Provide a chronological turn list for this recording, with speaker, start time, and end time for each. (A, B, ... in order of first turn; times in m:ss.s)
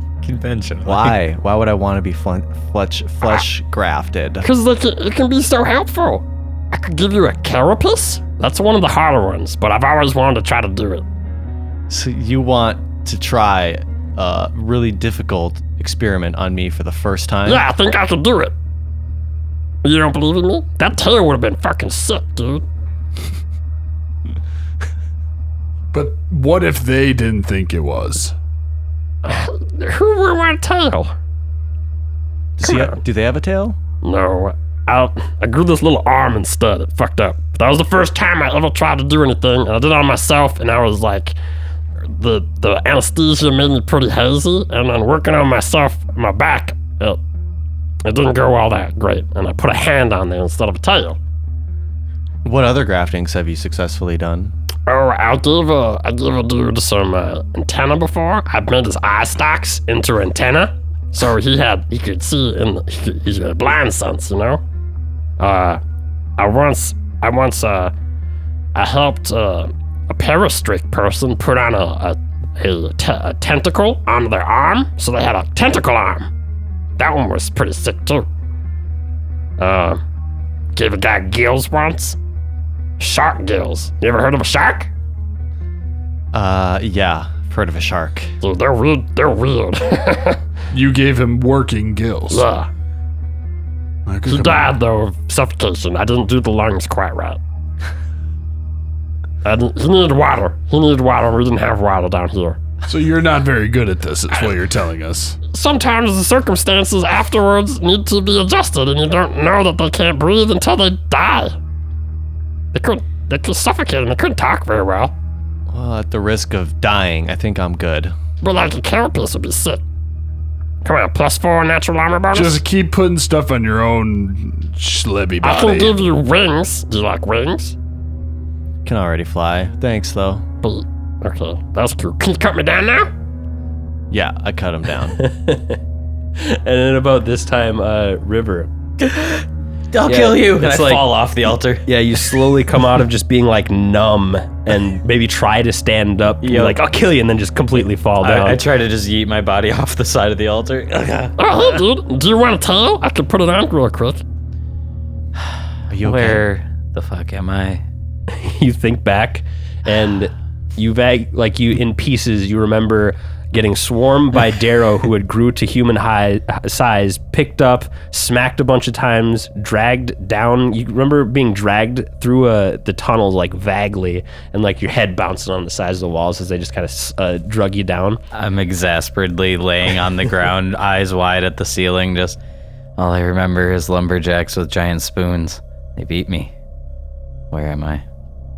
0:00.2-0:01.2 A
0:00.8-0:04.5 B
0:04.4-0:11.0 C
0:11.9-0:17.6 B
0:17.4-0:18.5 C
0:19.8-0:22.6 C
0:25.9-0:28.3 D
0:29.2-0:31.1 C
0:32.6-0:33.8 B
0:32.6-0:33.0 C
0:34.0-0:41.4 C
0:42.0-0:47.2 C
0:48.0-0:51.2 C
0:52.4-0:54.5 B
0:54.9-1:04.6 C
1:05.4-1:05.8 C
1:06.4-1:07.9 C
1:08.7-1:16.3 C
1:17.0-1:18.3 C
1:19.6-1:20.0 C
1:20.7-1:22.2 C
1:23.0-1:24.9 C
1:26.3-1:28.3 B
1:28.4-1:30.4 C
1:30.7-1:32.5 D
1:32.3-1:32.7 C
1:34.0-1:34.7 D
1:34.3-1:37.4 C
1:39.4-1:42.6 C
1:42.9-1:45.4 D
1:45.5-1:51.6 C
1:52.7-1:55.1 C
1:55.7-1:58.1 B
1:58.4-1:59.8 C
2:00.8-2:02.6 C
2:02.3-2:06.0 D
2:05.4-2:07.7 C
2:08.8-2:10.4 B
2:10.6-2:13.1 C
2:14.1-2:15.2 B
2:15.2-2:15.8 E
2:16.4-2:18.7 E
2:19.0-2:21.9 A
2:20.0-2:21.1 E
2:21.8-2:28.6 E
2:26.4-2:26.8 A
2:28.2-2:31.8 A
2:31.4-2:34.2 C
2:35.9-2:36.4 B
2:36.0-2:37.8 A
2:38.3-2:58.2 E
2:58.3-3:02.4 A
3:03.0-3:06.5 A
3:07.5-3:08.0 A